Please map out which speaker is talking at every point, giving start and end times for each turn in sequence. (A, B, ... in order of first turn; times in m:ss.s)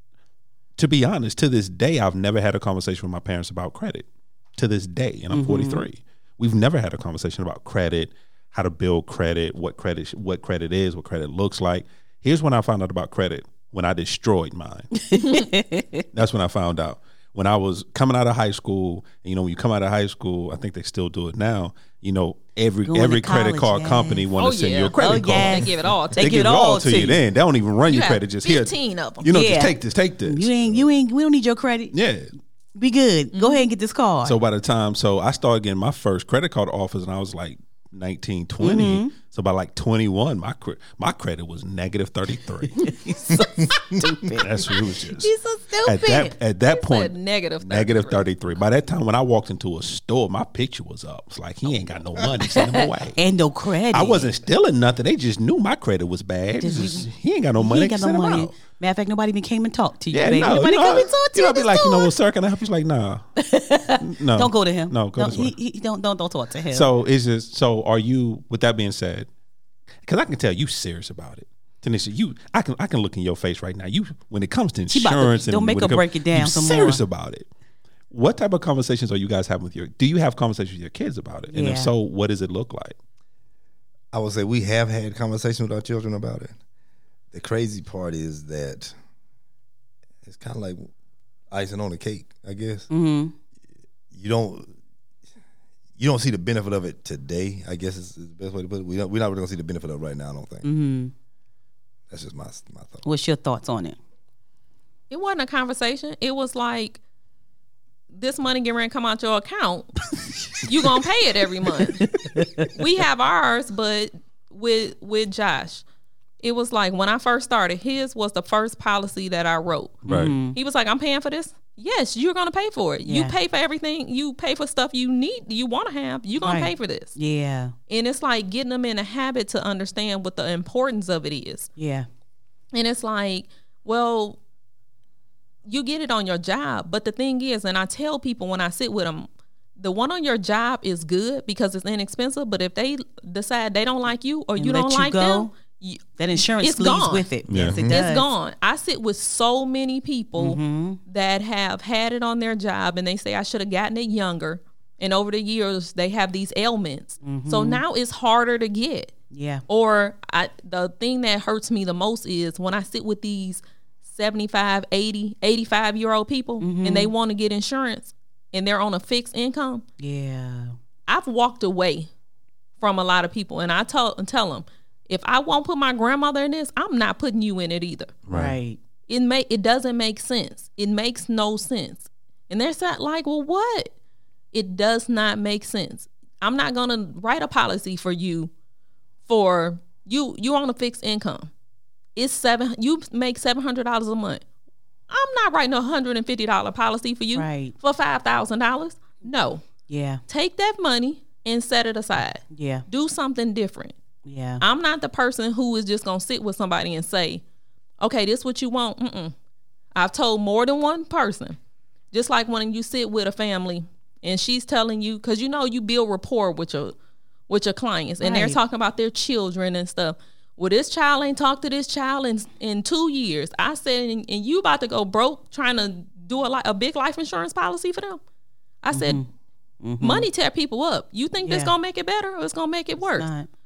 0:00.8-0:14.9 A
0:05.3-0:05.8 B
0:15.0-0:16.0 B
0:16.1-0:30.8 A
0:22.8-0:24.3 B
0:24.4-0:26.7 C
0:25.0-0:27.2 B
0:27.9-0:29.3 C
0:29.3-0:31.9 B
0:31.9-0:32.3 A
0:32.8-0:34.4 B
0:33.3-0:33.6 C
0:34.2-0:43.0 A
0:38.6-0:39.1 B
0:42.8-0:46.3 B
0:43.3-0:44.0 D
0:44.2-0:45.3 A
0:45.8-0:53.2 A
0:46.6-0:48.3 C
0:53.1-0:54.3 B
0:53.9-0:58.5 A
0:56.6-1:02.1 B
1:00.1-1:03.2 A
1:03.4-1:06.9 B
1:04.0-1:05.5 A
1:06.7-1:09.3 A
1:10.0-1:17.5 A
1:14.9-1:17.0 B
1:18.1-1:22.9 A
1:21.5-1:21.9 B
1:24.1-1:26.5 D
1:27.3-1:28.9 D
1:30.2-1:30.9 D
1:31.5-1:32.9 D
1:32.9-1:33.3 B
1:34.1-1:34.7 D
1:36.0-1:40.6 D
1:40.6-1:41.1 B
1:42.1-1:43.0 D
1:43.0-1:44.0 B
1:45.1-1:47.0 C
1:48.1-1:50.0 C
1:50.6-1:55.8 C
1:51.9-1:52.7 B
1:56.4-2:07.1 C
2:00.0-2:00.3 A
2:00.1-2:00.6 B
2:03.0-2:03.4 B
2:06.4-2:07.7 B
2:07.9-2:11.7 C
2:11.8-2:12.1 B
2:12.7-2:14.4 C
2:15.6-2:27.3 C
2:24.6-2:25.5 B
2:26.2-2:28.3 B
2:27.5-2:27.8 A
2:27.8-2:39.1 C
2:30.4-2:31.0 B
2:37.2-2:37.8 B
2:39.3-2:39.6 B
2:39.7-2:49.8 C
2:46.6-2:47.1 B
2:50.0-2:50.7 B
2:51.1-2:52.1 C
2:52.8-2:58.2 C
2:58.3-2:58.6 A
2:58.3-2:58.8 B
2:59.1-3:03.9 C
3:04.5-3:08.5 C
3:09.3-3:11.5 C
3:12.2-3:14.4 C
3:15.1-3:19.6 C
3:17.3-3:17.7 B
3:19.9-3:20.2 B
3:20.3-3:23.9 C
3:22.5-3:22.8 B
3:24.2-3:24.6 B
3:24.6-3:27.4 C
3:28.0-3:29.3 C
3:29.9-3:31.6 C
3:32.1-3:36.9 C
3:37.5-3:48.2 C
3:38.2-3:38.6 B
3:48.8-3:49.2 C
3:48.9-3:49.3 B
3:49.8-3:50.3 B
3:50.0-3:53.3 C
3:51.4-3:51.7 B
3:53.0-3:53.5 B